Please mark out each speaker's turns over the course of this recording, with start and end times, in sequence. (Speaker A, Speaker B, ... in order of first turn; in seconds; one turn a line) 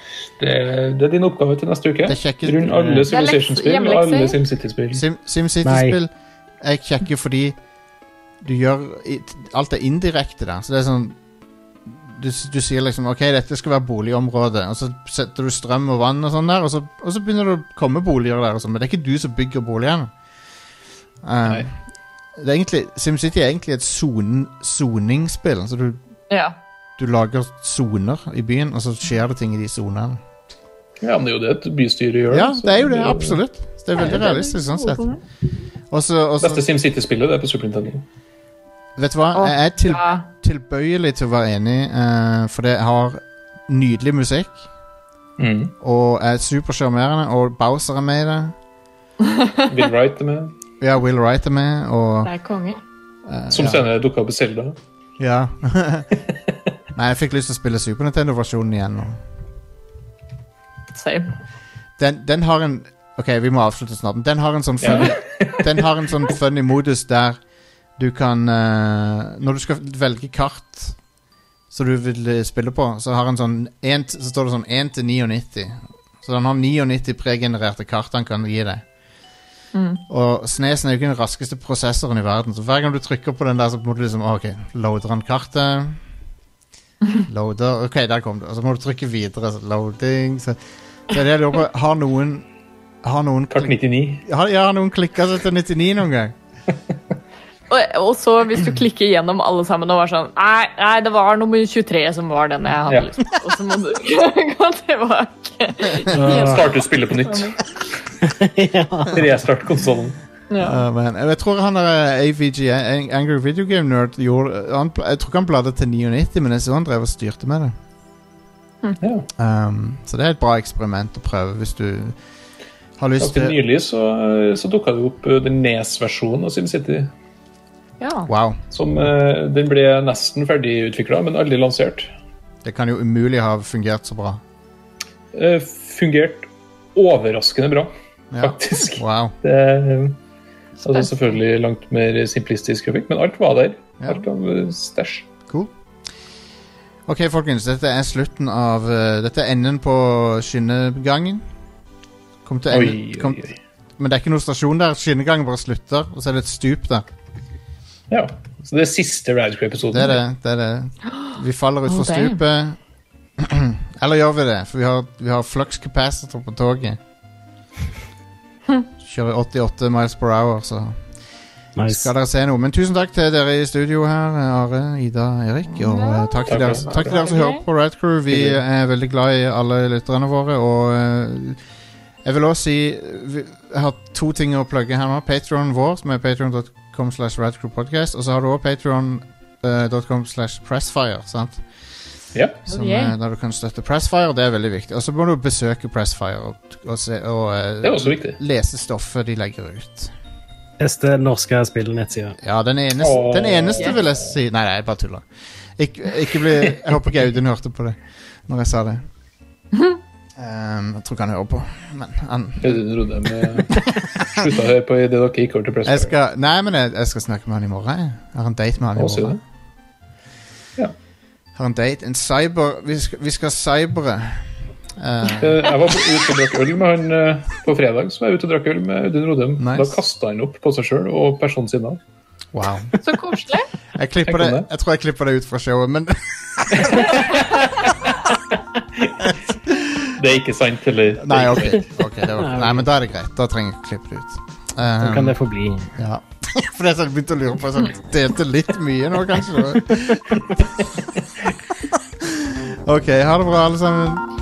Speaker A: 0.4-5.0
Speaker B: 2.0-3.0
Speaker C: 3.1-4.4
Speaker B: 4.9-6.1
Speaker D: 5.6-6.0
Speaker B: 6.6-7.6
Speaker B: 8.4-11.2
Speaker B: 11.8-20.1
Speaker B: 21.2-21.7
Speaker B: 22.4-26.0
Speaker C: 26.3-26.6
Speaker B: 27.0-30.2
Speaker A: 31.0-33.4
Speaker B: 32.3-35.1
Speaker C: 34.0-35.2
Speaker B: 35.9-36.6
Speaker A: 36.4-38.0
Speaker B: 39.0-44.6
Speaker C: 39.3-40.2
Speaker A: 45.4-45.7
Speaker B: 45.8-48.5
Speaker C: 49.2-49.6
Speaker A: 49.7-50.5
Speaker B: 50.8-52.3
Speaker C: 52.2-52.8
Speaker B: 53.2-53.9
Speaker A: 53.5-54.8
Speaker B: 55.2-56.2
Speaker B: 56.9-59.2
Speaker C: 60.9-61.3
Speaker B: 62.0-67.4
Speaker A: 64.8-65.8
Speaker B: 68.0-71.0
Speaker B: 71.7-78.8
Speaker C: 79.7-80.0
Speaker B: 80.1-86.0
Speaker B: 87.2-92.5
Speaker B: 93.0-96.3
Speaker A: 93.5-94.2
Speaker C: 97.7-107.6
Speaker A: 102.9-103.1
Speaker D: 106.1-106.6
Speaker A: 106.2-107.6
Speaker D: 108.2-109.2
Speaker A: 109.1-110.2
Speaker C: 110.5-110.8
Speaker B: 110.6-117.7
Speaker A: 119.0-119.3
Speaker B: 119.4-122.2
Speaker B: 123.0-123.5
Speaker A: 123.2-127.1
Speaker C: 128.0-128.3
Speaker B: 128.2-128.6
Speaker A: 128.7-132.1
Speaker B: 132.6-134.4
Speaker A: 135.3-140.2
Speaker B: 138.3-139.3
Speaker C: 140.8-141.1
Speaker A: 140.8-145.3
Speaker B: 147.1-151.4
Speaker B: 152.4-153.4
Speaker A: 152.7-153.6
Speaker B: 154.0-157.1
Speaker A: 158.1-160.2
Speaker B: 159.9-162.8
Speaker C: 161.9-162.4
Speaker B: 163.4-167.0
Speaker B: 169.0-171.0
Speaker D: 171.8-172.1
Speaker B: 171.8-181.6
Speaker C: 175.7-177.6
Speaker A: 176.5-177.2
Speaker B: 182.2-191.6
Speaker A: 192.3-192.6
Speaker C: 192.7-193.1
Speaker B: 192.7-200.1
Speaker A: 197.8-198.4
Speaker D: 200.8-202.4
Speaker B: 202.4-205.2
Speaker A: 203.0-204.1
Speaker B: 205.8-209.1
Speaker A: 206.6-206.9
Speaker B: 210.3-212.8
Speaker A: 212.6-216.1
Speaker B: 213.7-214.5
Speaker B: 215.8-219.4
Speaker A: 218.9-219.4
Speaker B: 221.6-225.7
Speaker A: 225.2-232.0
Speaker B: 229.6-230.0
Speaker B: 232.5-233.0
Speaker C: 233.0-233.7
Speaker B: 233.9-237.3
Speaker A: 234.3-234.7
Speaker A: 236.8-238.3
Speaker A: 239.0-239.3
Speaker B: 239.2-240.1
Speaker A: 240.1-241.9
Speaker B: 241.2-245.3
Speaker D: 242.4-242.8
Speaker D: 245.0-245.9
Speaker B: 245.9-250.6
Speaker A: 250.4-251.1
Speaker B: 251.9-254.2